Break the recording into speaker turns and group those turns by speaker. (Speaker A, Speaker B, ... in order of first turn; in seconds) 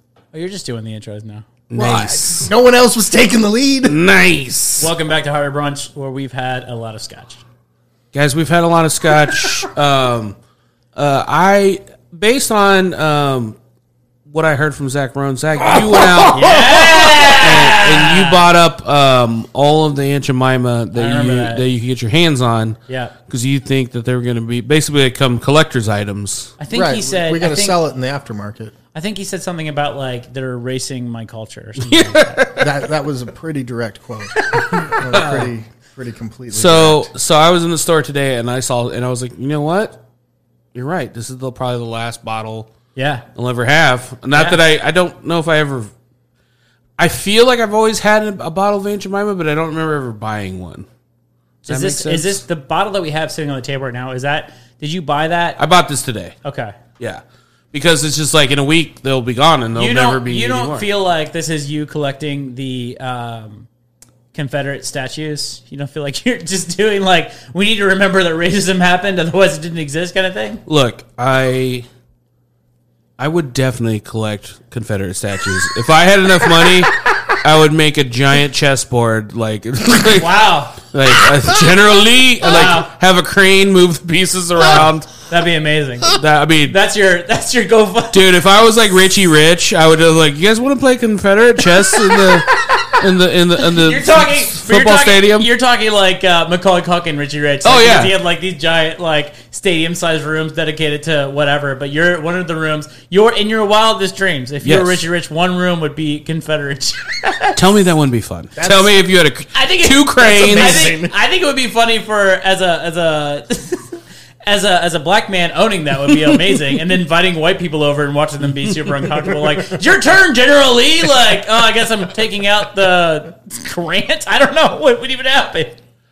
Speaker A: 0.3-1.4, 4.8-7.4, 16.3-18.4, 20.9-21.6, 22.9-23.1, 26.6-27.8, 28.9-32.5, 42.9-43.2, 44.3-44.6, 51.7-55.6, 56.4-56.8, 59.8-63.7, 64.3-70.6, 80.2-80.8, 82.4-82.9, 85.3-88.3, 92.1-92.9, 93.6-107.6, 109.5-125.8
Speaker B: 1.7-2.5, 3.8-4.9, 8.1-10.4, 10.9-13.6, 14.3-26.5, 31.8-32.7, 34.7-35.5, 36.5-40.0, 40.7-42.7, 43.3-45.9, 47.0-50.9, 51.6-52.4, 55.6-56.3, 57.0-60.9, 70.7-71.9, 73.2-85.1, 86.1-86.8, 88.1-95.5, 97.6-98.1, 104.6-105.0, 107.5-110.9
Speaker C: 1.7-4.0, 26.7-28.7, 32.6-37.1, 108.5-109.0, 110.2-111.1